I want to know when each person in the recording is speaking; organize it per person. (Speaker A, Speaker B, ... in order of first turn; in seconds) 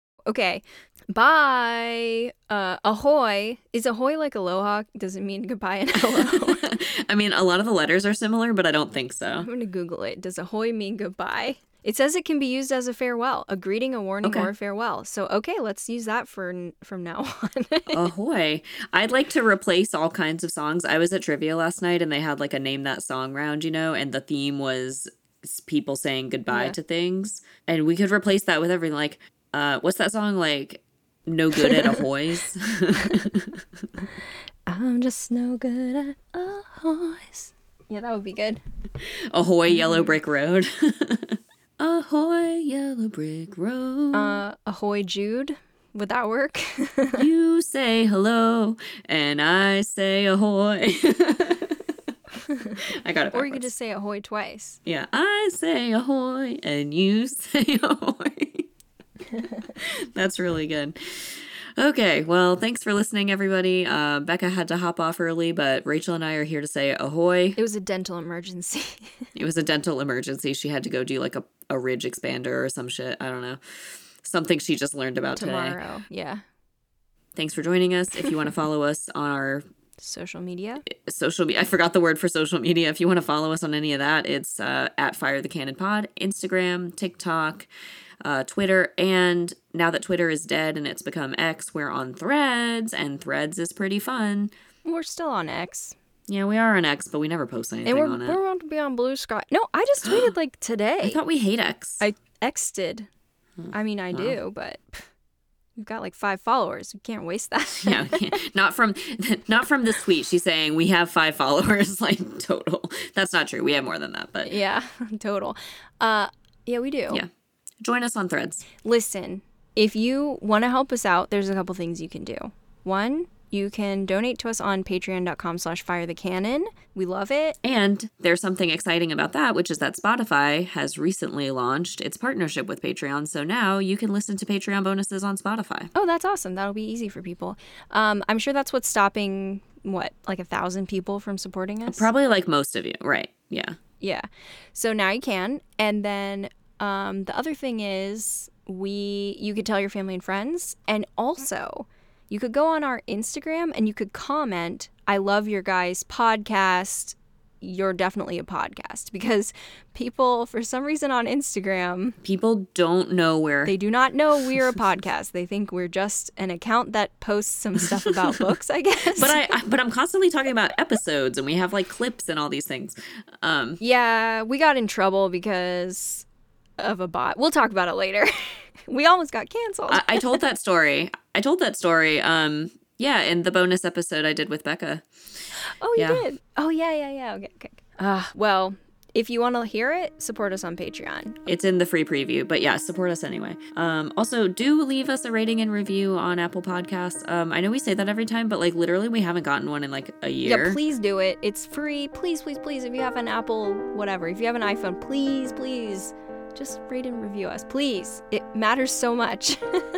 Speaker A: 0.3-6.7, 9.4-18.1, 26.5-26.8, 31.6-32.0, 34.7-38.6, 39.7-40.2, 44.1-47.3, 53.3-54.8, 67.6-69.2, 75.4-76.4, 80.0-80.8, 94.8-96.0, 97.9-101.2, 102.0-103.1, 103.7-105.0, 105.8-108.4, 114.5-117.2, 118.8-127.6, 135.9-142.1, 144.0-162.2, 163.7-169.5, 173.8-176.3, 176.8-180.4, 185.7-191.4, 200.4-209.8
Speaker B: 6.0-9.5, 14.2-14.5, 17.9-33.6, 39.3-44.4, 47.1-51.8, 52.8-53.7, 54.9-58.7, 59.7-67.6, 69.3-73.6, 74.2-75.8, 77.3-79.7, 80.9-87.7, 88.2-94.5, 96.3-98.4, 100.0-100.3, 101.0-102.1, 103.6-104.4, 107.8-114.5, 117.8-118.7, 127.6-135.9, 141.9-143.8, 162.2-163.7, 167.8-168.5, 169.2-173.8, 179.9-185.1, 185.9-186.2, 191.5-200.8